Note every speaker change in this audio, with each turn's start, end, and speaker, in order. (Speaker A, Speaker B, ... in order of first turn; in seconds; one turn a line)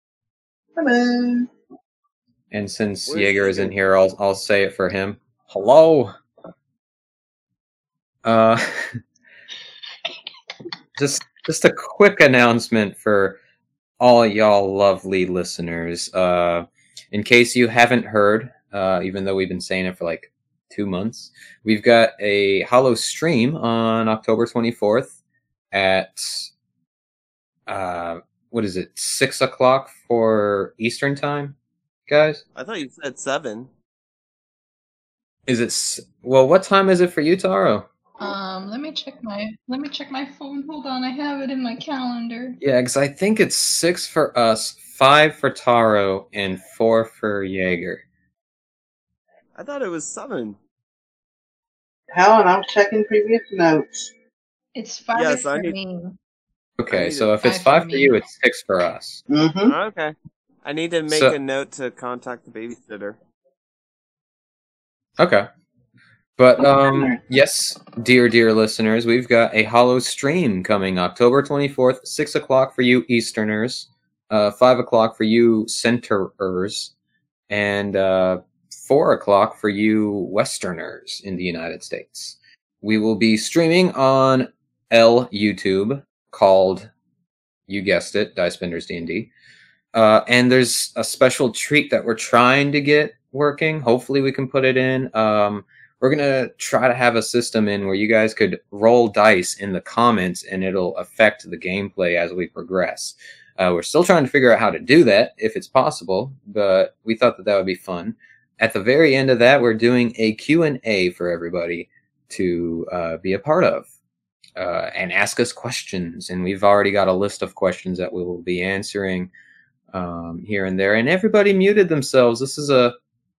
Speaker A: 0.8-1.5
Speaker B: 2.5-6.1
Speaker C: 3.1-3.7
Speaker B: 8.2-8.6
Speaker B: 11.0-13.4
Speaker B: 14.0-25.1
Speaker B: 25.7-26.5
Speaker B: 27.7-32.4
Speaker C: 32.5-33.7
Speaker B: 35.5-37.9
Speaker D: 38.2-42.6
Speaker B: 42.6-48.0
Speaker C: 49.5-50.6
Speaker A: 52.1-54.1
Speaker D: 54.7-56.2
Speaker C: 55.2-55.8
Speaker B: 56.8-59.2
Speaker C: 56.9-57.4
Speaker D: 57.4-58.2
Speaker A: 59.3-59.7
Speaker C: 59.7-63.2
Speaker B: 61.1-61.4
Speaker B: 65.2-65.5
Speaker B: 66.4-76.9
Speaker A: 66.9-67.2
Speaker B: 77.5-86.9
Speaker B: 87.7-89.3
Speaker B: 89.9-113.8
Speaker B: 114.6-119.3
Speaker B: 119.9-122.9